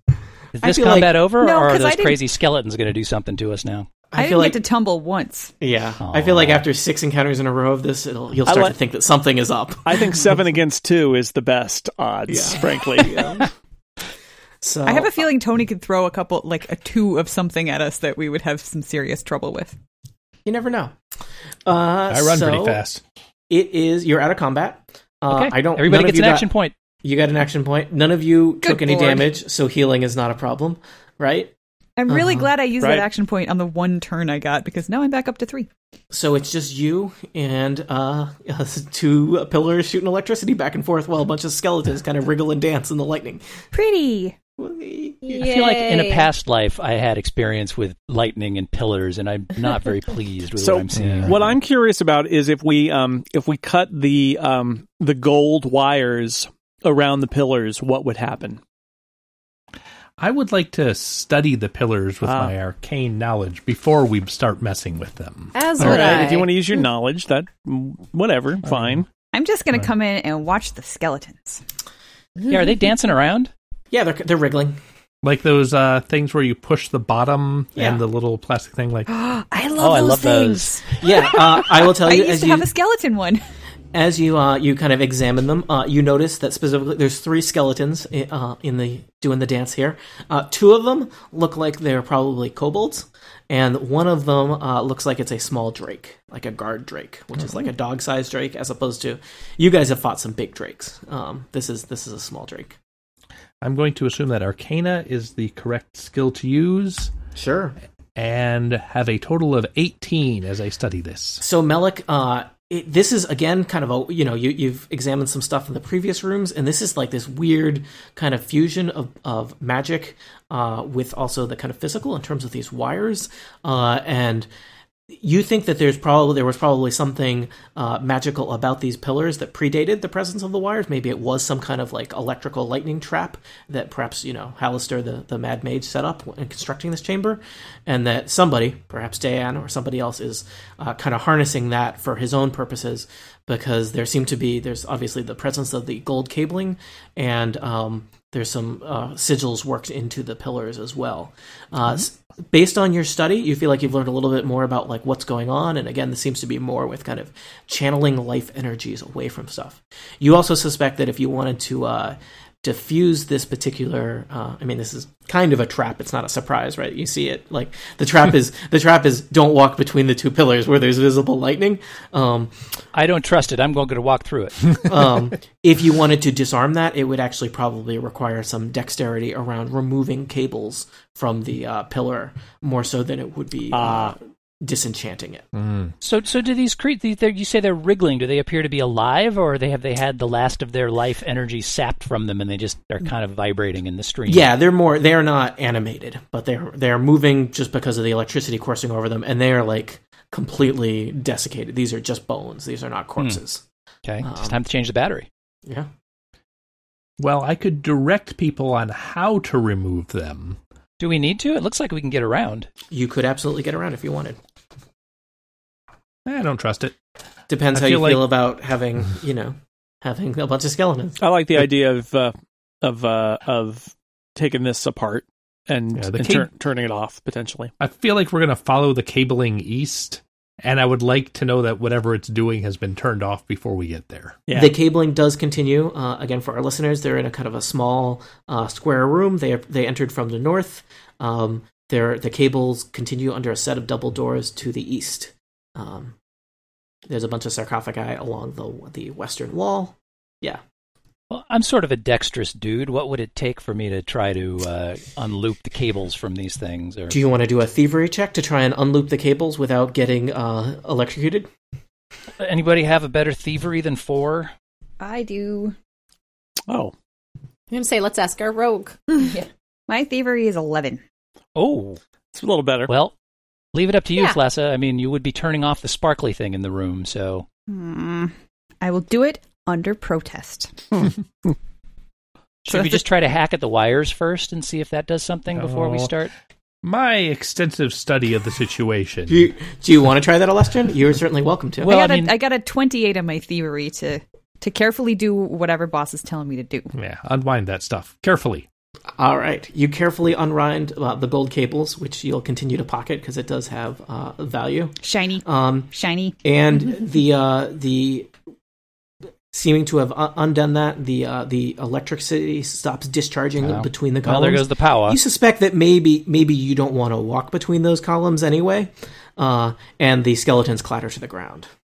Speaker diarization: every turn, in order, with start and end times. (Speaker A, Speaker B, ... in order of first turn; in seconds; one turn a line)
Speaker A: 0.6-3.9
Speaker B: 0.6-1.2
Speaker C: 1.4-2.2
Speaker B: 4.1-4.6
Speaker C: 4.2-5.5
Speaker B: 5.6-10.3
Speaker A: 6.0-6.7
Speaker D: 8.4-8.8
Speaker D: 9.9-13.2
Speaker B: 12.3-13.5
Speaker B: 14.6-15.3
Speaker C: 14.8-19.8
Speaker B: 20.4-20.9
Speaker B: 21.7-22.8
Speaker E: 22.1-23.0
Speaker B: 23.5-26.5
Speaker A: 25.3-26.7
Speaker B: 27.0-31.5
Speaker C: 28.6-29.3
Speaker C: 32.0-35.7
Speaker B: 32.1-32.5
Speaker D: 32.8-33.1
Speaker B: 36.1-43.4
Speaker C: 43.7-44.4
Speaker B: 44.6-45.5
Speaker F: 45.3-46.3
Speaker A: 45.4-51.4
Speaker D: 50.6-58.6
Speaker E: 50.9-51.5
Speaker E: 60.2-66.0
Speaker D: 62.2-62.5
Speaker F: 65.5-66.5
Speaker D: 65.8-69.1
Speaker A: 65.9-66.2
Speaker E: 68.7-69.0
Speaker C: 69.3-71.6
Speaker A: 72.5-73.5
Speaker B: 73.9-74.8
Speaker E: 75.2-79.1
Speaker B: 77.8-78.0
Speaker C: 79.1-83.4
Speaker A: 79.8-80.8
Speaker B: 81.0-82.7
Speaker B: 83.9-102.8
Speaker E: 103.6-107.1
Speaker B: 107.3-107.8
Speaker E: 108.2-111.4
Speaker B: 111.4-124.5
Speaker B: 125.1-172.5
Speaker A: 172.9-174.9
Speaker B: 174.8-185.5
Speaker D: 183.7-184.2
Speaker E: 185.6-185.9
Speaker A: 186.0-194.5
Speaker B: 194.3-203.6
Speaker A: 204.1-205.3
Speaker B: 204.2-204.6
Speaker E: 207.2-210.6
Speaker A: 211.0-212.7
Speaker B: 212.9-214.4
Speaker E: 216.3-216.9
Speaker B: 217.5-221.2
Speaker E: 217.7-218.3
Speaker D: 221.2-227.7
Speaker E: 225.9-226.5
Speaker E: 227.8-234.4
Speaker D: 234.5-234.8
Speaker B: 234.5-246.2
Speaker B: 247.1-250.6
Speaker A: 251.3-257.2
Speaker B: 257.1-261.5
Speaker A: 262.4-264.5
Speaker C: 265.0-265.8
Speaker D: 266.7-266.9
Speaker F: 267.7-269.4
Speaker C: 269.9-271.0
Speaker A: 271.6-272.0
Speaker D: 272.3-272.9
Speaker A: 272.9-273.1
Speaker A: 273.7-277.5
Speaker C: 277.7-280.8
Speaker A: 282.6-286.3
Speaker C: 282.7-283.0
Speaker E: 285.5-286.1
Speaker E: 286.8-289.4
Speaker B: 289.3-291.9
Speaker A: 291.8-292.4
Speaker C: 291.9-296.9
Speaker E: 296.9-298.7
Speaker B: 299.2-305.9
Speaker C: 305.0-306.4
Speaker B: 306.4-308.3
Speaker B: 309.5-321.7
Speaker A: 313.6-315.2